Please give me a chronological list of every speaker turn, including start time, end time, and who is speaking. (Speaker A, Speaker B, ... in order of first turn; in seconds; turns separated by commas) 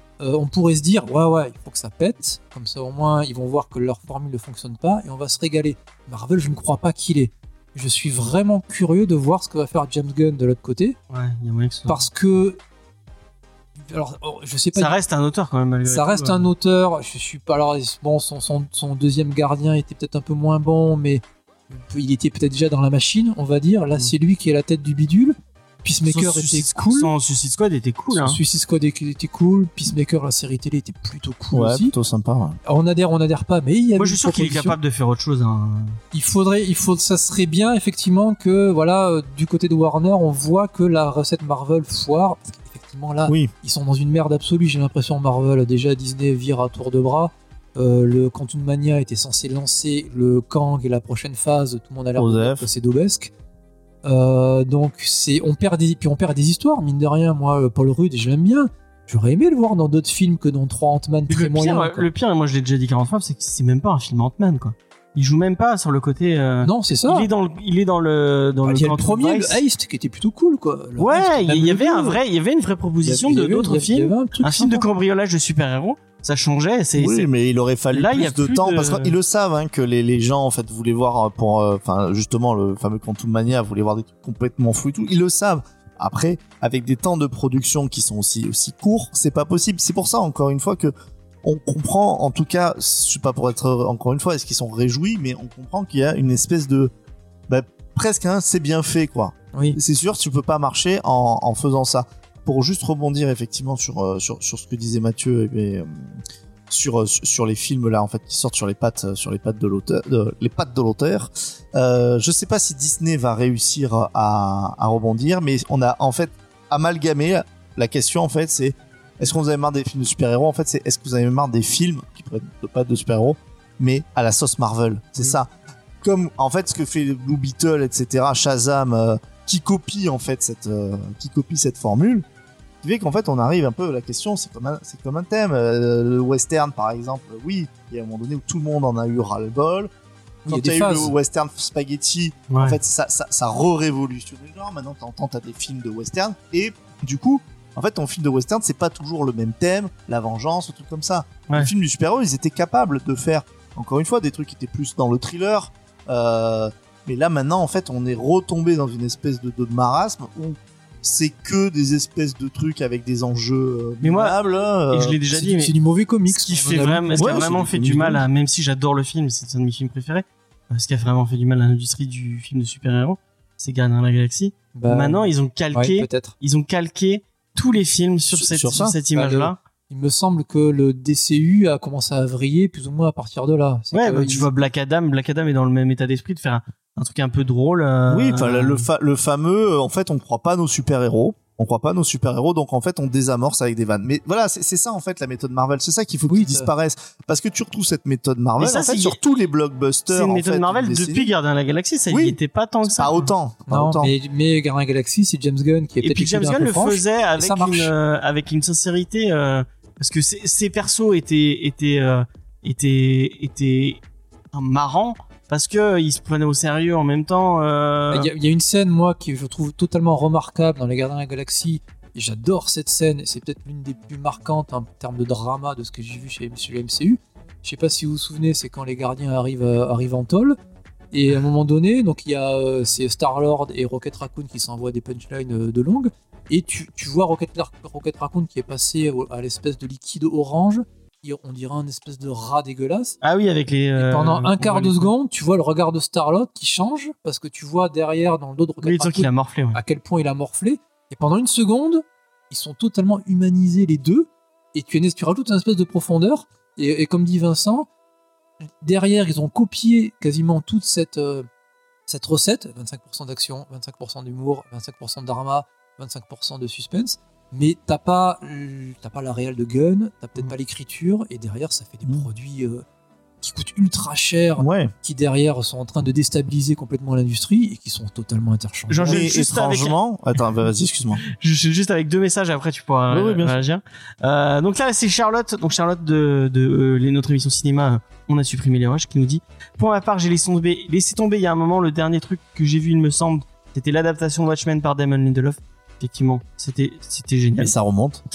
Speaker A: 0.2-11.0, Speaker B: 11.1-12.1, Speaker A: 11.9-12.6, Speaker A: 13.9-14.9, Speaker B: 14.8-16.5, Speaker A: 15.8-27.1, Speaker B: 26.0-28.4, Speaker A: 28.1-31.9, Speaker C: 31.5-32.6, Speaker A: 32.6-34.8, Speaker B: 34.0-36.0, Speaker A: 36.1-53.3, Speaker C: 52.1-52.7, Speaker A: 54.0-62.1, Speaker B: 61.3-69.6, Speaker A: 66.6-67.3, Speaker A: 68.6-72.2, Speaker B: 71.0-77.3, Speaker A: 73.0-74.8, Speaker C: 77.0-90.9, Speaker B: 77.9-79.1, Speaker C: 91.4-96.9, Speaker C: 97.5-125.5, Speaker A: 99.5-99.8, Speaker C: 126.0-132.2, Speaker C: 132.8-139.9, Speaker C: 140.4-165.2, Speaker A: 140.5-141.1, Speaker B: 142.5-142.8, Speaker B: 164.0-164.4, Speaker B: 164.9-165.7, Speaker A: 165.3-167.7, Speaker B: 166.3-179.6, Speaker C: 167.2-168.2, Speaker A: 174.7-176.3, Speaker C: 178.3-178.9, Speaker A: 179.1-184.5, Speaker B: 183.9-188.9, Speaker C: 188.1-201.3, Speaker A: 196.3-196.7, Speaker B: 198.6-199.2, Speaker B: 200.1-203.3, Speaker C: 202.1-204.1, Speaker A: 203.7-207.9, Speaker B: 206.0-214.0, Speaker B: 214.5-218.3, Speaker A: 218.1-230.6, Speaker A: 231.1-243.2, Speaker B: 243.2-245.1, Speaker A: 244.0-257.9, Speaker B: 248.8-249.8, Speaker A: 258.8-261.5, Speaker A: 262.1-272.8, Speaker A: 273.4-279.2, Speaker C: 274.6-274.9, Speaker B: 278.9-280.0, Speaker C: 279.0-281.2, Speaker B: 281.3-297.7, Speaker C: 283.1-283.6, Speaker C: 297.6-298.2